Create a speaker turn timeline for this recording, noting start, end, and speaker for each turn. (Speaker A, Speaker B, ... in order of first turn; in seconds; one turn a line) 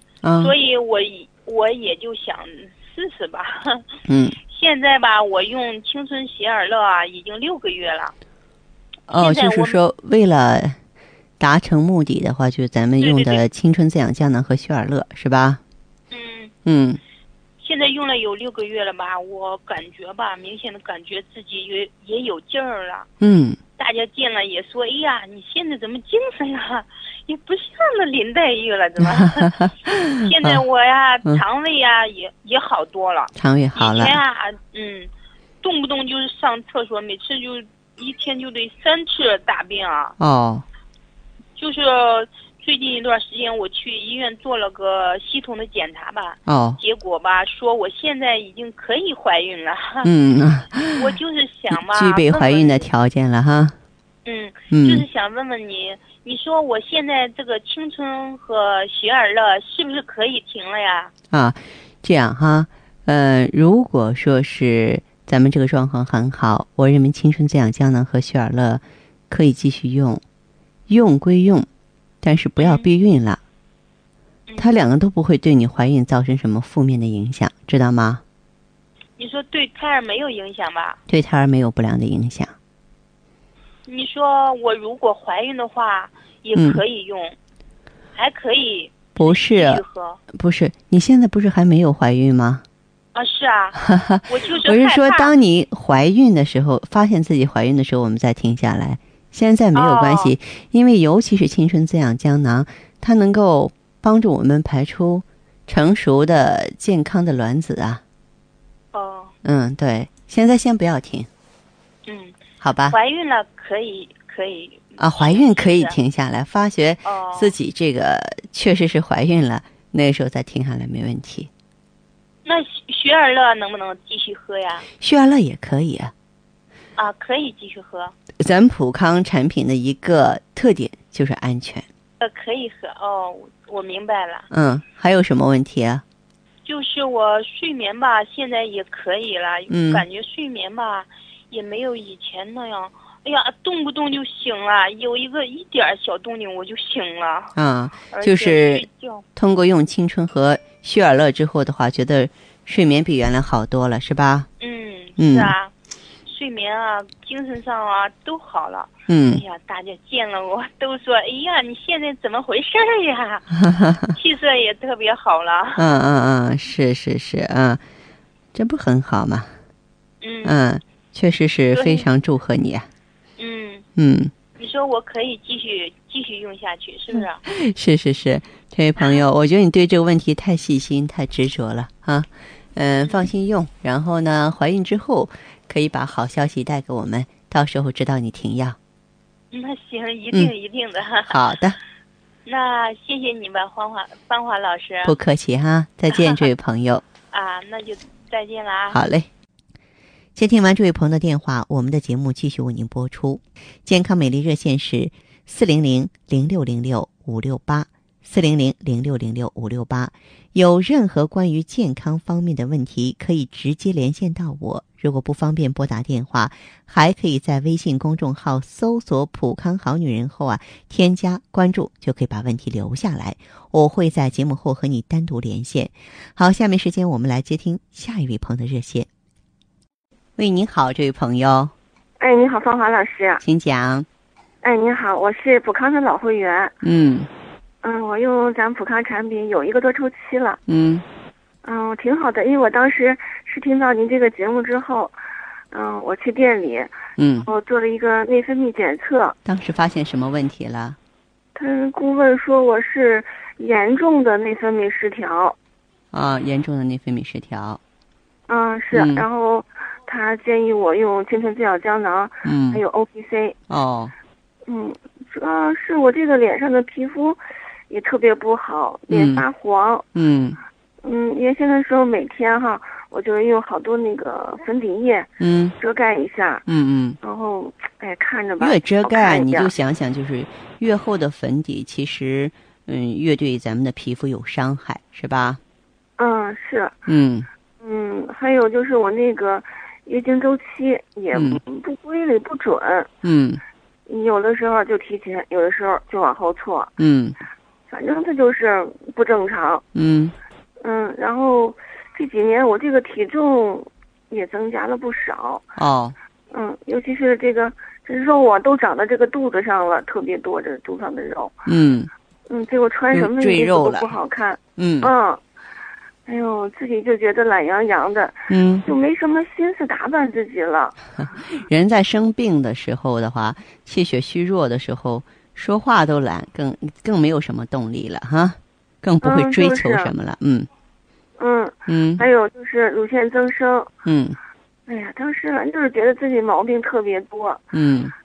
Speaker A: 0.2-0.6
Speaker B: 0.4-3.9
Speaker A: 4.1-4.4
Speaker B: 4.5-8.1
Speaker A: 9.1-10.8
Speaker B: 9.2-9.8
Speaker A: 11.4-15.6
Speaker B: 13.0-13.4
Speaker B: 16.1-16.5
Speaker A: 16.6-17.0
Speaker B: 17.6-23.1
Speaker A: 23.2-23.6
Speaker B: 23.8-29.5
Speaker A: 29.0-30.6
Speaker B: 30.2-35.1
Speaker A: 33.4-34.2
Speaker B: 35.6-40.1
Speaker A: 40.2-40.7
Speaker B: 41.6-50.1
Speaker A: 46.5-46.8
Speaker A: 50.0-51.2
Speaker B: 50.9-52.9
Speaker A: 51.7-53.8
Speaker B: 54.2-61.1
Speaker A: 54.7-55.1
Speaker A: 61.3-70.2
Speaker A: 70.9-71.7
Speaker A: 72.2-73.4
Speaker B: 72.6-72.9
Speaker B: 74.5-74.8
Speaker A: 74.6-78.2
Speaker B: 79.2-81.0
Speaker A: 81.1-82.6
Speaker B: 83.9-87.4
Speaker A: 86.5-86.8
Speaker B: 88.2-90.2
Speaker A: 89.2-92.7
Speaker B: 93.2-95.3
Speaker A: 93.8-108.0
Speaker B: 99.8-100.3
Speaker B: 108.9-109.3
Speaker A: 109.4-111.3
Speaker B: 112.1-112.3
Speaker A: 112.6-113.0
Speaker B: 112.9-116.0
Speaker A: 115.0-121.5
Speaker B: 117.1-117.5
Speaker B: 122.5-124.9
Speaker A: 125.0-126.1
Speaker B: 127.0-128.1
Speaker A: 128.4-131.9
Speaker B: 132.2-134.5
Speaker A: 134.5-136.0
Speaker B: 136.7-147.5
Speaker A: 139.7-140.1
Speaker A: 147.6-154.5
Speaker B: 148.1-149.2
Speaker B: 154.6-155.7
Speaker A: 155.2-155.6
Speaker B: 156.3-163.6
Speaker A: 159.1-159.4
Speaker A: 163.6-164.1
Speaker B: 164.1-165.8
Speaker A: 165.8-167.8
Speaker A: 168.5-169.5
Speaker B: 170.2-170.6
Speaker A: 170.4-172.9
Speaker B: 171.7-172.1
Speaker B: 173.4-173.8
Speaker A: 174.0-174.3
Speaker B: 174.6-177.4
Speaker A: 177.1-188.8
Speaker B: 189.5-191.4
Speaker A: 191.2-191.8
Speaker B: 192.5-195.1
Speaker A: 195.0-197.0
Speaker B: 196.1-196.4
Speaker B: 197.3-199.0
Speaker A: 198.9-199.3
Speaker A: 200.3-229.1
Speaker A: 230.4-231.7
Speaker C: 232.2-233.4
Speaker A: 233.4-234.1
Speaker C: 234.6-236.8
Speaker A: 236.8-237.3
Speaker C: 237.8-240.6
Speaker A: 240.7-241.0
Speaker C: 241.6-245.1
Speaker C: 245.7-246.9
Speaker A: 247.2-247.5
Speaker C: 247.4-249.3
Speaker A: 249.4-251.0
Speaker C: 251.6-255.6
Speaker A: 256.1-257.8
Speaker C: 258.5-263.6
Speaker A: 258.9-259.3
Speaker A: 262.4-262.8
Speaker A: 263.7-264.1
Speaker C: 264.7-267.4
Speaker C: 267.9-270.1
Speaker A: 269.1-269.4
Speaker A: 270.1-270.6
Speaker C: 271.0-276.6
Speaker A: 275.4-275.8
Speaker A: 276.7-277.2
Speaker C: 277.2-279.7
Speaker A: 278.6-285.6
Speaker C: 286.2-287.0
Speaker A: 287.1-287.5
Speaker C: 287.8-293.1
Speaker A: 291.3-291.6
Speaker A: 293.2-293.6
Speaker C: 294.1-296.9
Speaker A: 297.0-297.4
Speaker C: 297.9-299.8
Speaker A: 299.9-300.4
Speaker C: 300.8-305.7
Speaker A: 305.8-306.2
Speaker C: 306.5-311.6
Speaker A: 311.7-312.1
Speaker C: 312.5-315.4
Speaker A: 313.1-314.1
Speaker A: 314.8-315.1
Speaker C: 316.3-321.0
Speaker A: 318.5-318.9
Speaker A: 321.3-330.7
Speaker C: 329.2-330.1
Speaker C: 331.4-333.9
Speaker A: 331.9-332.2
Speaker A: 334.1-334.4
Speaker C: 334.9-337.7
Speaker A: 337.7-338.1